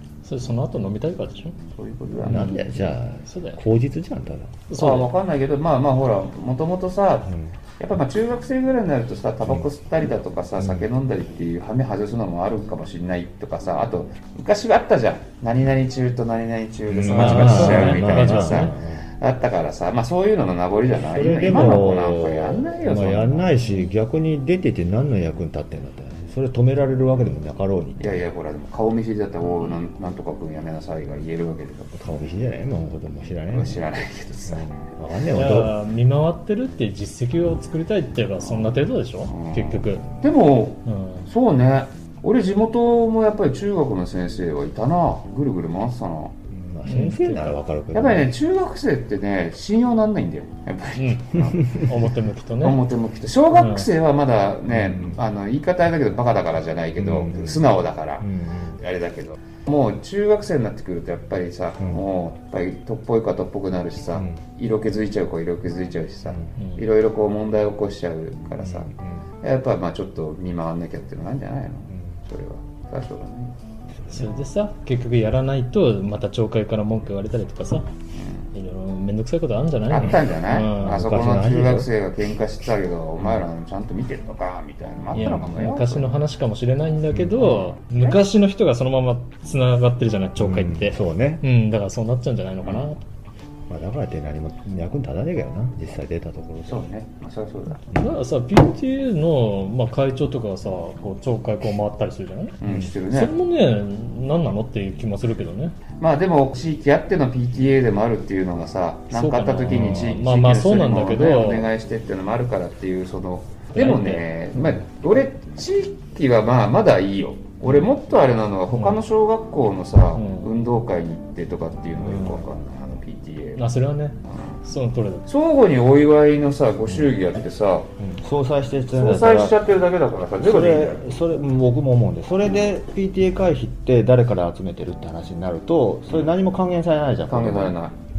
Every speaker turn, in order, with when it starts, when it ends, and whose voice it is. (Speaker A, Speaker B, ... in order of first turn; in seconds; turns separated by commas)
Speaker A: 0.2-1.6, Speaker B: 1.7-2.6, Speaker C: 2.2-4.7, Speaker A: 2.3-3.6, Speaker A: 4.7-5.1, Speaker B: 4.7-23.6, Speaker C: 7.3-7.5, Speaker C: 10.6-10.9, Speaker C: 16.9-19.1, Speaker A: 17.0-18.8, Speaker C: 21.1-28.2, Speaker A: 23.6-23.9, Speaker B: 28.0-31.9, Speaker C: 31.9-33.9, Speaker B: 33.5-34.9, Speaker C: 34.5-35.8, Speaker A: 35.3-40.1, Speaker B: 38.4-46.3, Speaker A: 40.9-41.3, Speaker C: 46.5-48.3, Speaker A: 46.8-47.5, Speaker B: 47.9-51.9, Speaker A: 51.0-52.8, Speaker B: 52.6-58.3, Speaker A: 53.5-53.9, Speaker C: 54.7-55.2, Speaker C: 57.0-57.7, Speaker C: 58.2-58.8, Speaker B: 58.8-73.5, Speaker C: 64.1-64.5, Speaker A: 66.6-66.8, Speaker C: 68.6-69.3, Speaker C: 71.9-72.2, Speaker C: 74.1-74.3, Speaker A: 74.1-77.9, Speaker B: 78.1-78.5, Speaker A: 78.5-81.0, Speaker B: 79.9-86.2, Speaker C: 80.8-81.9, Speaker A: 85.1-93.0, Speaker C: 87.1-87.4, Speaker B: 87.4-88.2, Speaker C: 90.4-91.4, Speaker B: 92.6-92.9, Speaker C: 93.7-96.8, Speaker B: 96.7-97.9, Speaker C: 97.9-98.2, Speaker A: 97.9-105.8, Speaker B: 102.6-103.3, Speaker B: 106.0-123.6, Speaker A: 109.1-111.7, Speaker A: 113.7-114.8, Speaker A: 117.7-117.9, Speaker A: 118.7-119.0, Speaker A: 120.1-120.5, Speaker C: 122.0-122.5, Speaker A: 123.6-125.2, Speaker B: 124.3-124.6, Speaker B: 125.3-127.9, Speaker C: 128.0-129.6, Speaker B: 128.9-131.1, Speaker C: 130.4-137.8, Speaker B: 137.3-137.9